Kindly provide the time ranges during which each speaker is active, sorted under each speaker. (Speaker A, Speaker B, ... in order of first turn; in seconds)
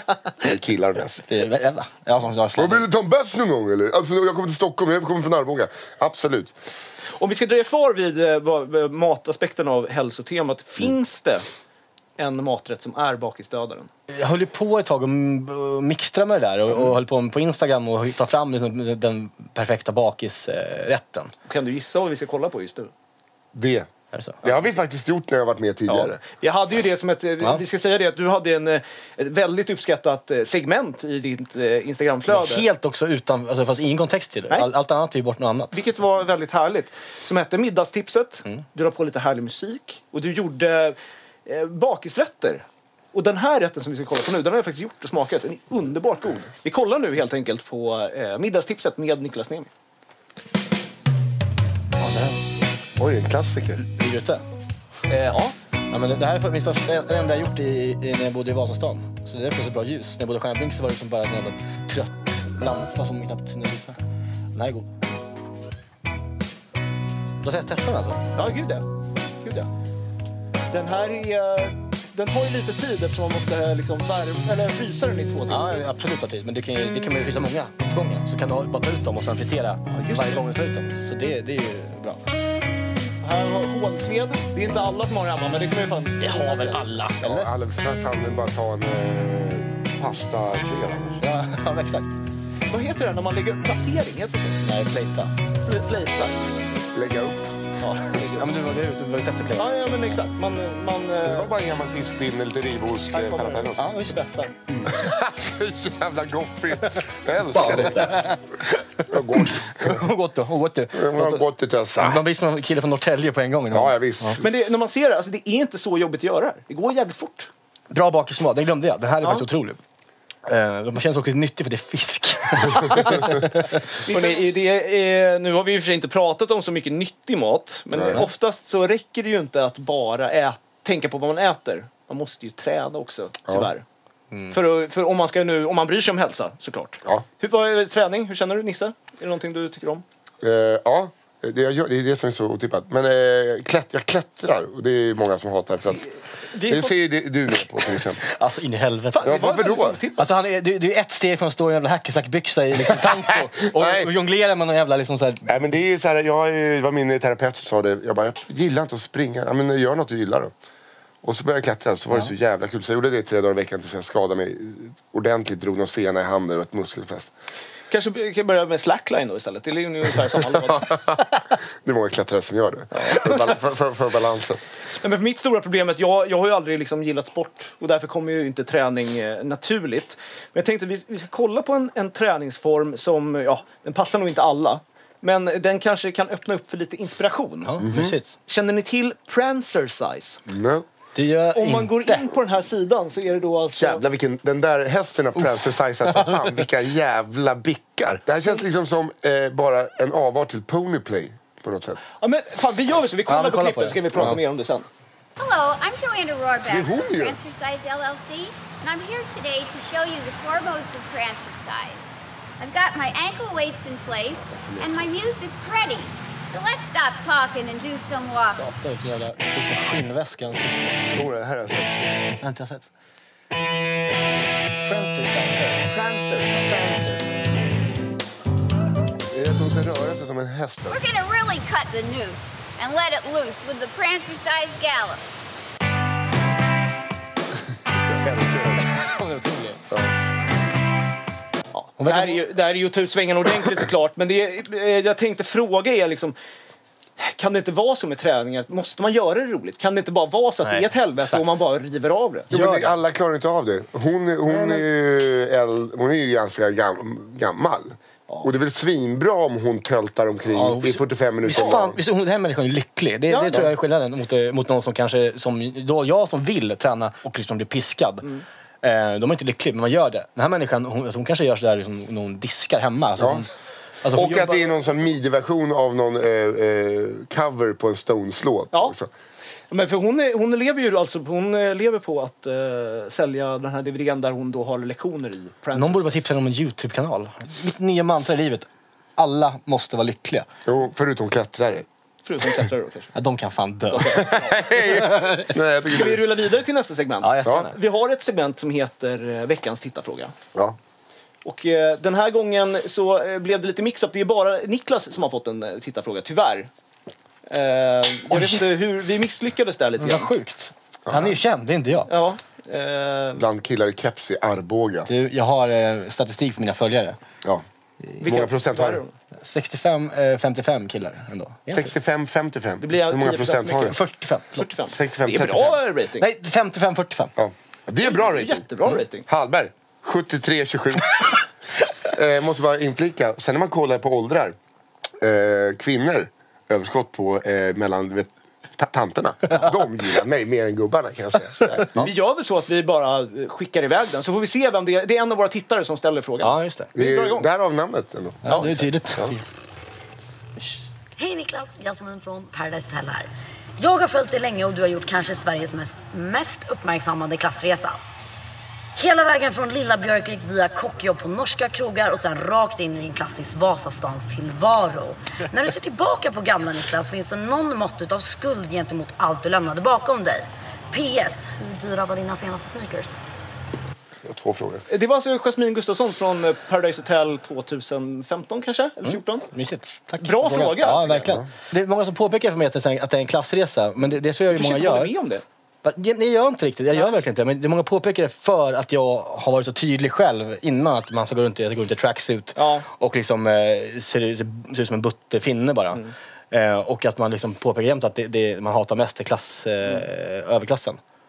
Speaker A: 0.4-1.3, 2.6-6.6, 23.5-23.9, 24.4-26.2, 53.0-53.8, 87.2-91.2, 96.9-97.6, 101.3-103.9, 104.7-108.2, 109.1-110.0, 110.9-112.2, 113.7-114.5, 127.9-128.2, 140.4-146.1, 146.6-148.3, 149.2-150.0, 153.0-154.1, 155.5-160.5, 161.2-167.3, 170.6-171.2, 171.8-174.6, 187.8-188.2, 190.5-190.9, 193.8-202.0, 206.7-207.4, 214.5-215.1, 221.1-222.2, 229.3-231.0, 238.1-239.0, 252.5-262.0, 273.2-273.5, 274.1-279.1, 290.7-291.9, 294.2-296.3, 311.1-311.4, 313.4-315.1, 318.2-319.0, 321.7-324.0, 324.9-325.8, 327.4-331.4, 332.1-334.6, 335.2-342.1, 346.9-349.4, 374.2-374.9
Speaker B: 1.3-2.9, 14.1-21.3, 24.1-24.4, 32.3-35.8, 52.0-52.4, 53.8-54.4, 55.9-64.0, 64.5-64.9, 67.4-68.2, 75.5-82.2, 86.2-87.5, 91.2-92.1, 94.6-95.3, 98.4-100.2, 103.8-104.2, 107.5-111.5, 112.0-114.4, 117.9-119.8, 120.5-124.2, 148.2-149.5, 150.2-155.5, 187.7-188.3, 191.2-192.2, 196.2-196.4, 203.3-204.4, 218.4-221.3, 222.4-222.9, 224.8-225.9, 238.9-239.8, 242.0-242.4, 250.6-251.6, 252.5-252.9, 254.5-254.8, 260.5-268.3, 268.8-273.5, 274.0-274.7, 285.7-290.5, 293.1-295.6, 297.2-297.8, 308.3-308.6, 310.0-312.1, 315.1-317.2, 319.4-321.9, 323.8-324.7, 326.2-327.3, 346.4-346.9, 348.4-349.4, 379.5-385.1, 385.8-401.0
Speaker C: 7.2-11.5, 12.2-13.9, 21.5-22.9, 25.9-32.7, 35.7-49.7, 55.1-55.5, 68.3-68.9, 70.7-75.8, 79.9-80.4, 83.2-86.8, 92.7-94.7, 95.7-96.5, 97.8-98.5, 99.6-101.5, 103.1-104.6, 114.4-117.5, 122.8-123.2, 124.1-133.8, 134.5-140.1, 146.5-146.9, 149.1-150.3, 167.9-171.0, 172.9-173.4, 175.0-187.8, 188.5-190.4, 191.5-194.0, 202.2-204.9, 225.9-227.4, 241.7-246.4, 247.2-252.5, 263.3-263.7, 279.7-286.1, 292.2-293.1, 293.9-294.8, 295.9-300.3, 301.4-306.7, 307.5-310.3, 312.1-313.4, 318.2-319.1, 322.8-324.0, 324.6-326.3, 328.0-329.2, 342.0-347.5, 348.5-348.9, 374.9-379.5, 380.2-381.3, 384.5-385.4, 392.6-392.9
Speaker D: 205.4-212.0, 212.6-218.6, 230.9-235.2
Speaker E: 351.2-358.0, 359.0-373.2